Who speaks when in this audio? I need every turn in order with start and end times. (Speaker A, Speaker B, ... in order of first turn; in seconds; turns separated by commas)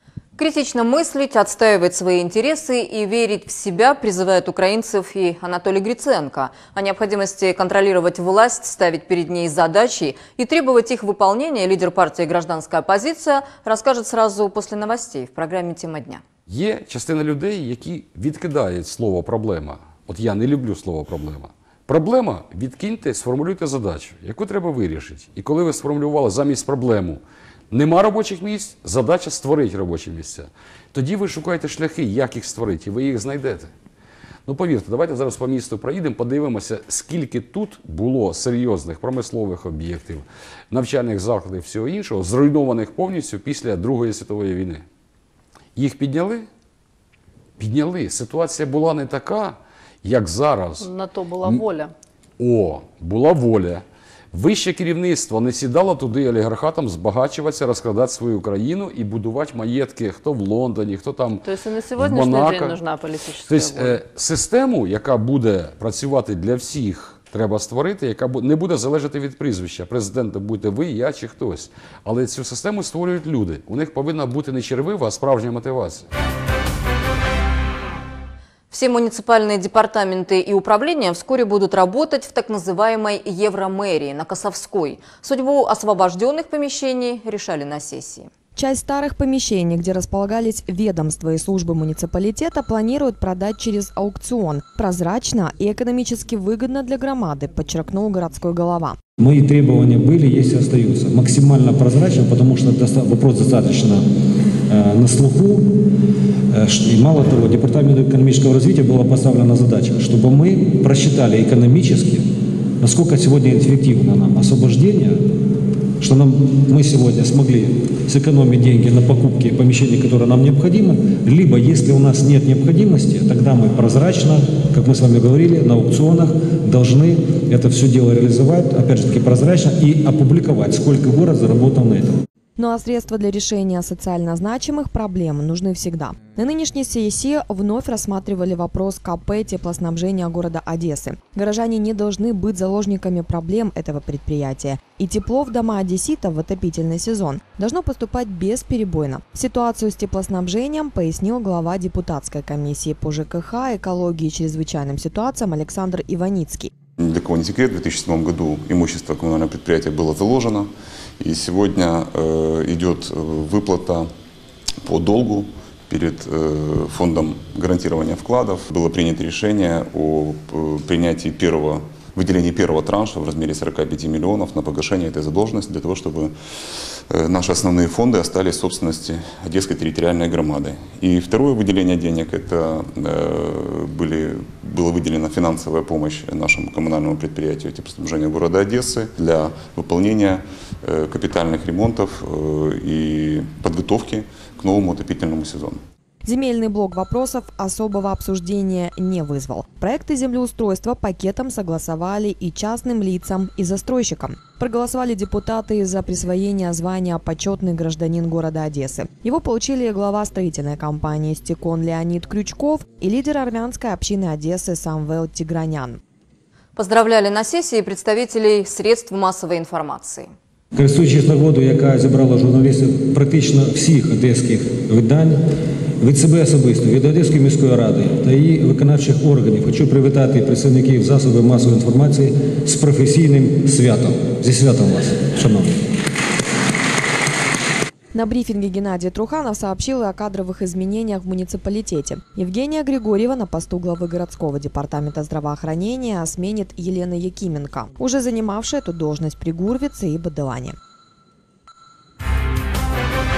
Speaker A: 0.3-16.2, Speaker B: 16.5-33.7, Speaker B: 34.5-44.8, Speaker B: 45.8-46.5, Speaker B: 47.6-51.7, Speaker C: 50.8-51.9, Speaker B: 52.4-61.4, Speaker C: 61.4-64.0, Speaker B: 62.0-62.8, Speaker B: 63.4-76.0, Speaker A: 78.7-88.3, Speaker D: 88.5-99.0, Speaker E: 99.2-104.0, Speaker E: 104.7-105.7, Speaker E: 106.5-112.3, Speaker E: 112.8-115.2, Speaker E: 116.0-132.2, Speaker D: 132.6-156.7, Speaker F: 157.0-164.1, Speaker F: 164.8-176.3, Speaker F: 176.9-195.8, Speaker D: 196.2-216.0, Speaker A: 216.8-220.3, Speaker E: 220.7-225.4, Speaker E: 226.0-235.8, Speaker D: 238.1-250.8